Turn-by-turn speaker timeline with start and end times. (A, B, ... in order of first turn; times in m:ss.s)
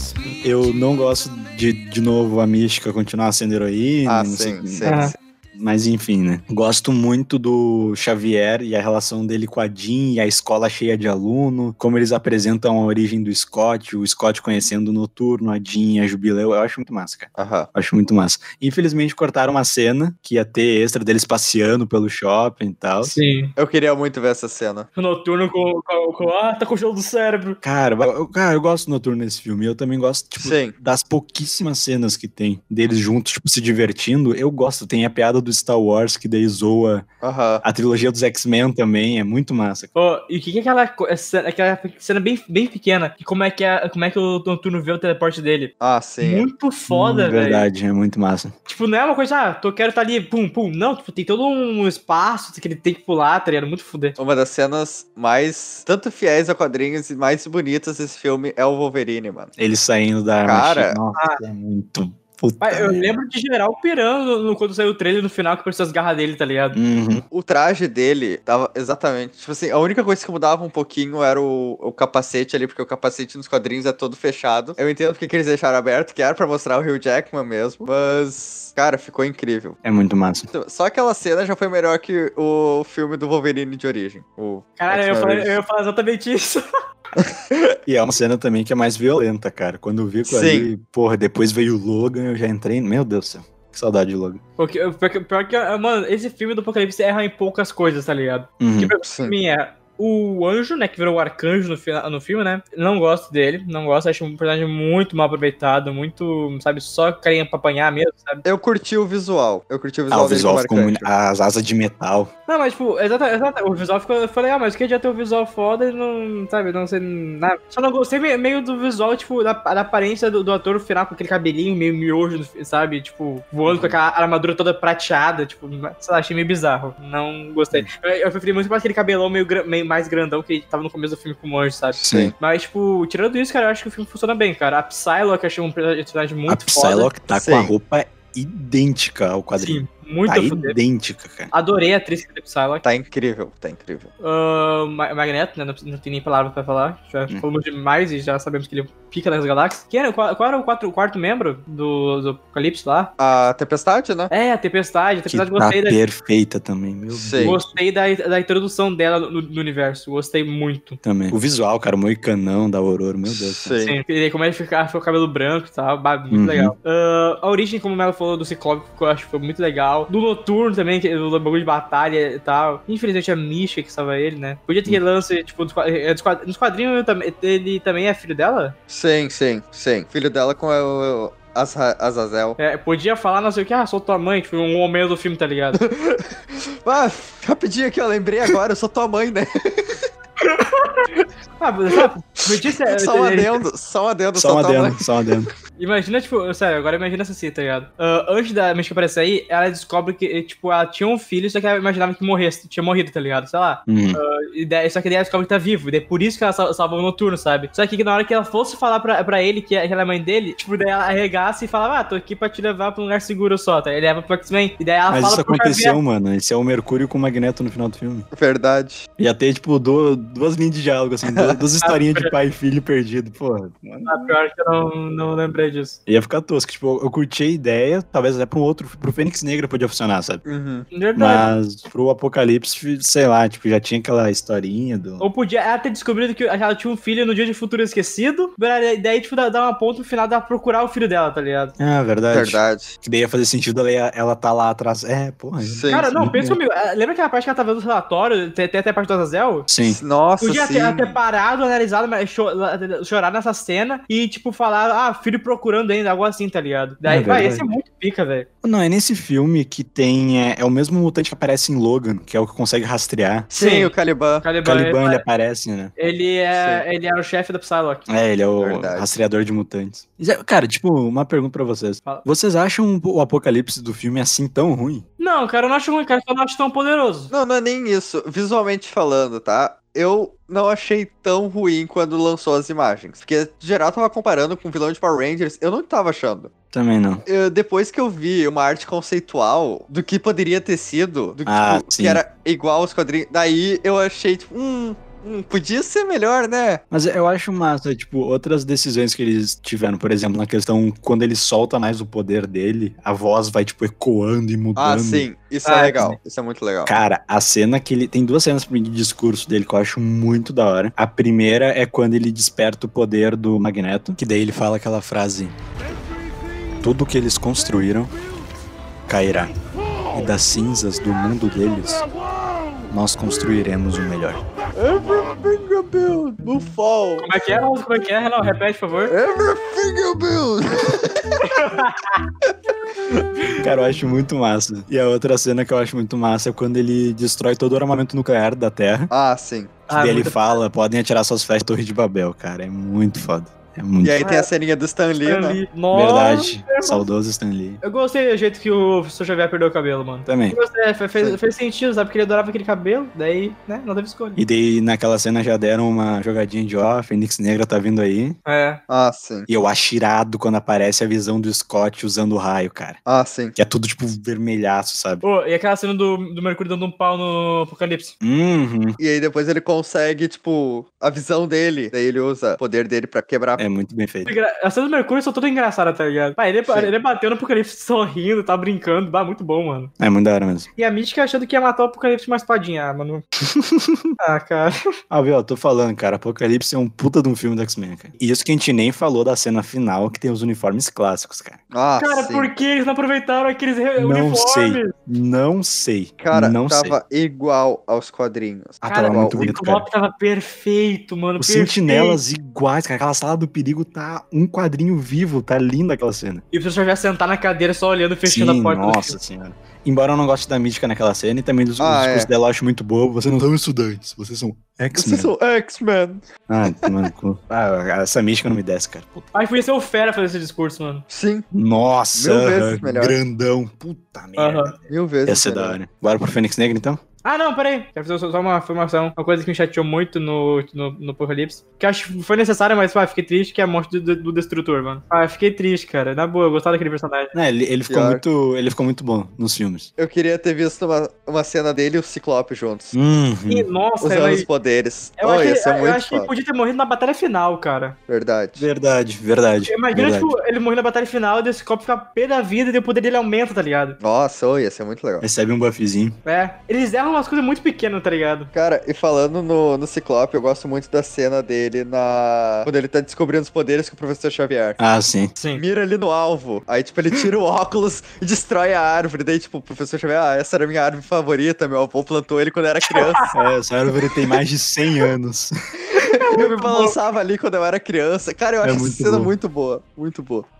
0:00.2-0:23.1 A
0:04.1-0:05.1 B
0:04.8-0:05.1 C
0:17.4-0:17.7 B
0:23.0-0:23.5 C
0:23.6-0:24.9 B
0:25.0-0:27.6 C
0:27.6-0:37.0 A
0:30.4-0:30.7 B
0:37.2-0:37.6 B
0:37.6-0:39.9 A
0:39.9-0:47.7 C
0:45.8-0:46.5 B
0:46.9-0:48.5 A
0:48.7-0:54.2 C
0:54.2-0:59.5 B
0:59.6-1:03.1 A
1:00.4-1:01.0 B
1:01.2-1:01.4 C
1:02.6-1:06.8 C
1:06.7-1:07.2 A
1:07.3-1:19.8 B
1:19.8-1:20.5 A
1:20.5-1:25.5 B
1:24.8-1:26.6 C
1:27.8-1:34.4 A
1:30.3-1:30.7 B
1:34.6-1:48.4 C
1:38.6-1:38.9 A
1:39.0-1:39.3 B
1:48.4-1:51.1 B
1:50.1-1:52.3 A
1:52.5-2:17.1 C
2:12.0-2:12.3 B
2:12.0-2:12.3 A
2:16.5-2:21.5 A
2:17.3-2:17.7 B
2:19.6-2:20.8 C
2:21.5-2:22.8 C
2:22.8-2:24.1 B
2:24.2-2:33.1 C
2:33.2-2:34.3 B
2:34.3-2:36.0 C
2:35.3-2:37.7 A
2:37.1-2:37.5 B
2:37.4-2:41.0 C
2:41.0-2:43.6 A
2:43.3-2:44.0 B
2:43.8-2:58.8 C
2:46.3-2:46.7 A
2:58.9-3:02.6 B
3:02.6-3:05.8 C
3:05.8-3:10.0 B
3:10.4-3:11.0 C
3:11.6-3:13.6 C
3:12.8-3:15.0 B
3:14.3-3:15.5 A
3:15.8-3:36.0 C
3:23.9-3:24.2 A
3:35.1-3:38.3 A
3:38.3-3:39.1 B
3:39.2-3:44.3 A
3:41.3-3:41.6 B
3:41.8-3:42.3 C
3:44.1-3:46.0 C
3:46.1-3:50.4 A
3:50.4-3:50.9 B
3:50.9-3:51.5 C
3:51.2-3:55.2 A
3:55.2-4:01.7 C
4:01.8-4:06.6 A
4:02.3-4:02.9 B
4:05.6-4:06.1 B
4:05.9-4:09.7 C
4:09.7-4:10.0 A
4:09.8-4:11.1 B
4:10.4-4:18.5 C
4:17.0-4:17.7 A
4:18.6-4:23.5 A
4:23.5-4:24.4 B
4:23.6-4:23.9 C
4:24.4-4:25.2 C
4:24.6-4:25.9 A
4:26.0-4:28.1 C
4:26.5-4:26.8 B
4:28.1-4:35.0 A
4:28.6-4:29.0 B
4:35.2-4:37.3 C
4:37.3-4:46.5 B
4:46.7-4:47.2 A
4:47.2-4:56.8 B
4:51.5-4:52.2 A
4:56.9-5:05.3 A
5:04.8-5:06.9 B
5:05.6-5:06.1 C
5:06.8-5:15.5 A
5:16.8-5:18.1 A
5:19.1-5:19.5 A
5:20.1-5:22.0 A
5:22.9-5:24.4 A
5:24.7-5:27.2 B
5:27.2-5:29.1 C
5:29.1-5:31.4 B
5:31.4-5:32.2 C
5:33.6-5:39.1 A
5:39.1-5:39.8 B
5:39.9-5:44.1 A
5:39.9-5:40.5 C
5:44.0-5:45.6 B
5:44.2-5:44.5 C
5:45.2-5:47.0 C
5:45.9-5:47.8 A
5:47.8-5:54.4 C
5:50.2-5:50.6 A
5:54.4-5:58.4 A
5:58.4-5:58.8 C
5:58.9-5:59.5 B
5:59.5-6:03.0 A
6:03.0-6:03.6 B
6:03.5-6:05.2 A
6:05.2-6:08.1 C
6:08.2-6:09.0 A
6:09.0-6:13.6 B
6:13.6-6:14.3 A
6:14.2-6:19.9 C
6:20.0-6:20.7 A
6:20.8-6:23.2 C
6:23.4-6:24.1 A
6:24.2-6:24.8 C
6:25.1-6:31.6 A
6:31.7-6:32.5 B
6:32.0-6:34.9 C
6:34.0-6:37.0 A
6:36.2-6:39.5 B
6:38.8-6:39.8 A
6:38.8-6:42.2 C
6:41.4-6:46.4 A
6:46.5-6:49.1 C
6:48.2-6:55.3 A
6:51.8-6:52.3 B
6:55.0-6:56.2 B
6:56.5-6:59.3 A
6:56.8-6:57.1 B
6:59.3-7:01.0 C
7:01.1-7:01.4 B
7:01.5-7:07.0 A
7:02.2-7:03.2 B
7:04.4-7:04.7 C
7:04.9-7:05.8 B
7:07.2-7:17.3 C
7:17.3-7:19.9 A
7:17.9-7:18.2 B
7:20.0-7:23.0 B
7:22.9-7:23.7 A
7:23.5-7:24.5 C
7:24.0-7:26.3 B
7:25.2-7:28.0 C
7:28.1-7:28.6 B
7:28.6-7:30.3 A
7:29.7-7:34.0 C
7:34.0-7:35.2 B
7:35.2-7:36.2 A
7:36.2-7:38.5 C
7:38.5-7:44.8 B
7:44.8-7:45.3 A
7:45.4-7:45.6 C
7:45.6-7:53.3 B
7:53.3-7:55.5 A
7:55.9-7:56.9 C
7:56.2-8:00.4 B
7:58.6-7:59.3 A